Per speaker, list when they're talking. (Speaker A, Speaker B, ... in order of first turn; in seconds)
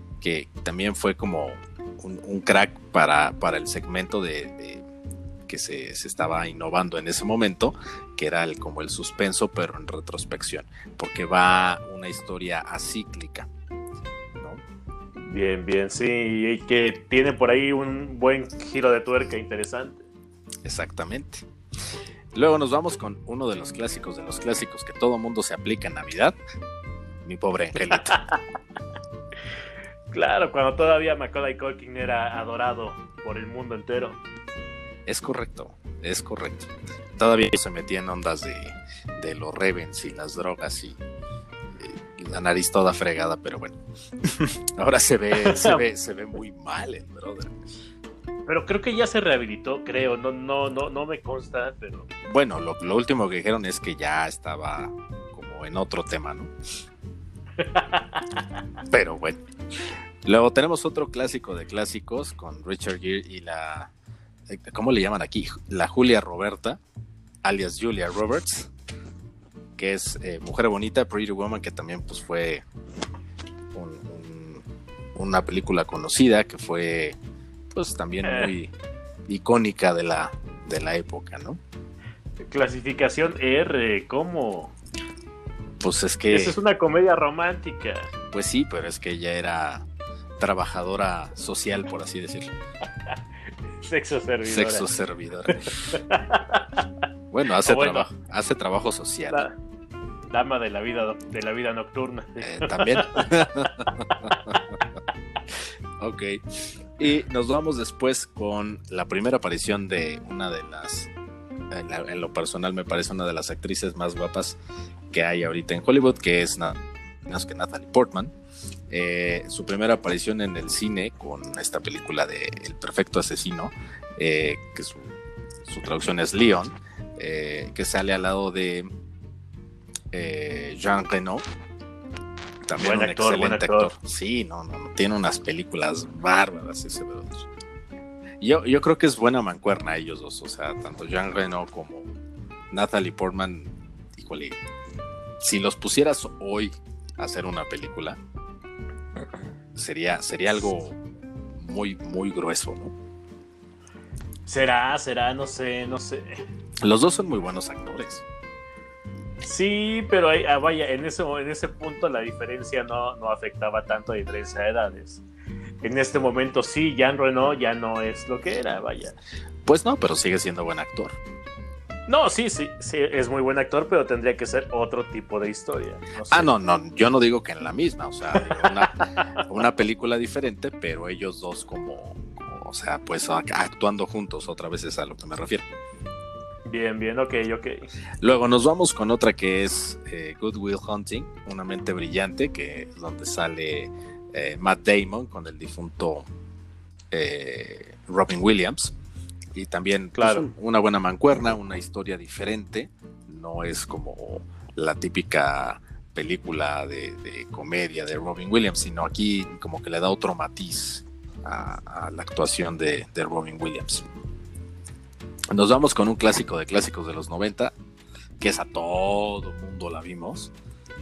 Speaker A: 0.2-4.8, 5.5-13.5, 20.6-21.5, 22.3-26.4, 27.2-28.2, 35.0-41.0, 41.8-47.5, 52.3-56.5, 58.9-59.4, 60.2-63.9, 64.5-66.8, 67.4-68.7, 69.8-72.6, 73.7-74.6, 75.2-77.2, 77.7-78.7, 79.3-81.6, 85.8-86.6, 88.3-89.9, 90.4-92.5, 94.5-96.0, 97.3-99.5, 102.4-104.8, 106.0-111.1, 111.7-114.6, 115.1-118.3, 118.9-125.1, 125.7-128.9, 130.1-131.4, 132.7-137.5, 138.4-142.1, 142.7-144.6, 145.4-148.2, 149.8-151.0, 151.6-152.9, 156.8-158.2, 169.6-171.2, 176.3-185.6, 188.2-196.2, 197.1-198.9, 199.5-214.1, 215.5-217.7, 218.4-220.5
Speaker B: 15.2-20.0, 27.9-28.4, 30.1-34.2, 45.4-45.8, 48.5-52.1, 57.6-58.5, 78.2-78.5, 82.5-84.7, 86.3-88.1, 93.8-94.9, 95.5-96.8, 97.6-98.1, 99.3-99.5, 100.3-104.6, 132.8-133.9, 154.5-156.4, 159.4-165.2, 165.8-169.2, 172.1-176.5, 178.4-179.4, 186.7-187.9, 200.2-200.5